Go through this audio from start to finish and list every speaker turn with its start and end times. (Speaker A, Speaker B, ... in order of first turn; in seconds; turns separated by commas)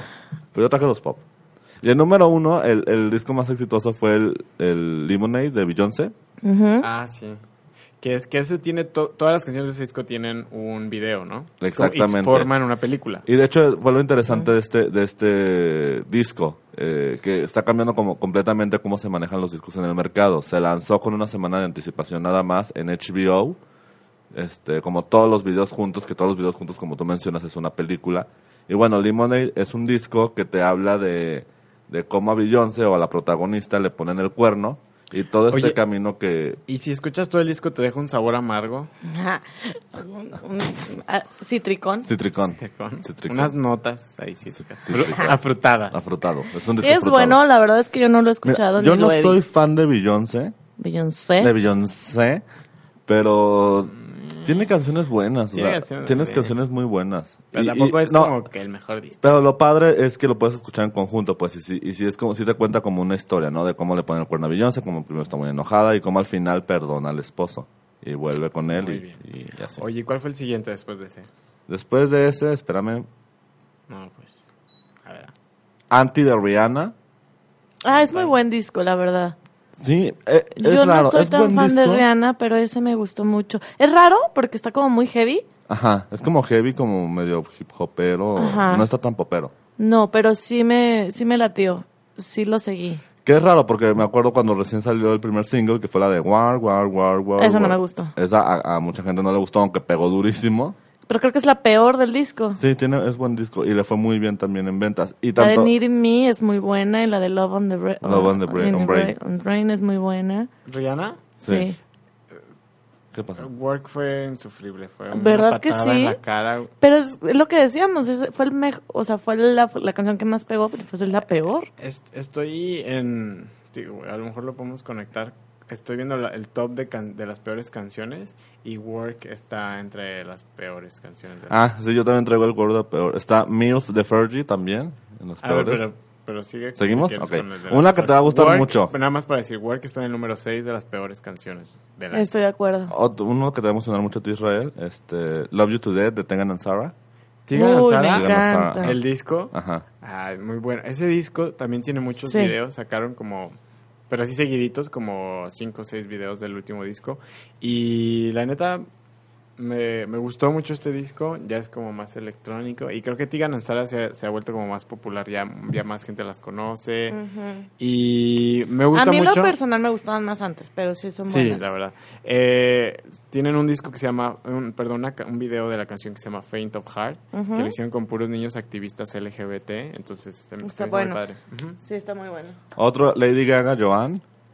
Speaker A: 0.5-1.2, Speaker A: 1.8-6.1, Speaker B: 6.4-6.9, Speaker C: 6.8-7.4, Speaker C: 8.0-13.3, Speaker A: 11.6-12.5, Speaker A: 13.3-23.6, Speaker A: 24.3-36.6, Speaker C: 35.5-35.8, Speaker C: 36.7-38.9, Speaker B: 39.1-42.1, Speaker A: 42.0-43.6, Speaker C: 42.4-46.0, Speaker A: 44.9-45.4, Speaker A: 45.9-47.4, Speaker B: 46.8-49.5, Speaker A: 48.4-50.5, Speaker B: 50.8-51.5, Speaker A: 51.4-52.4, Speaker A: 53.1-58.3, Speaker C: 54.1-54.6, Speaker C: 55.5-56.5, Speaker C: 57.5-59.2, Speaker A: 59.2-69.8, Speaker C: 68.8-69.2, Speaker C: 69.8-71.3, Speaker A: 71.7-73.1, Speaker C: 73.9-74.4, Speaker C: 75.0-75.3, Speaker A: 75.9-76.9, Speaker B: 77.8-79.3, Speaker A: 79.8-82.1, Speaker B: 80.6-85.5, Speaker A: 85.7-89.5, Speaker B: 88.4-88.9, Speaker B: 89.8-93.0, Speaker A: 93.2-100.8, Speaker B: 97.4-98.1, Speaker B: 101.1-102.6, Speaker A: 102.6-105.7, Speaker B: 105.4-110.5, Speaker A: 108.0-109.1, Speaker C: 110.7-111.2, Speaker A: 111.4-111.7, Speaker B: 111.4-111.8, Speaker A: 113.1-113.5, Speaker C: 113.4-116.7, Speaker B: 115.1-116.2, Speaker B: 116.8-121.7, Speaker C: 121.8-131.6, Speaker A: 131.5-135.9, Speaker C: 135.4-142.2, Speaker A: 136.8-138.9, Speaker B: 142.1-142.9, Speaker A: 142.9-146.9, Speaker C: 147.5-153.6, Speaker B: 147.5-148.9, Speaker A: 148.1-149.0, Speaker A: 149.5-149.8, Speaker B: 152.2-152.5, Speaker C: 154.1-158.8, Speaker C: 159.6-167.2, Speaker B: 167.1-167.7, Speaker C: 167.8-169.6, Speaker B: 168.9-171.7, Speaker C: 171.2-181.8, Speaker B: 177.3-177.7, Speaker B: 180.6-181.2, Speaker B: 181.8-182.6, Speaker A: 182.8-184.2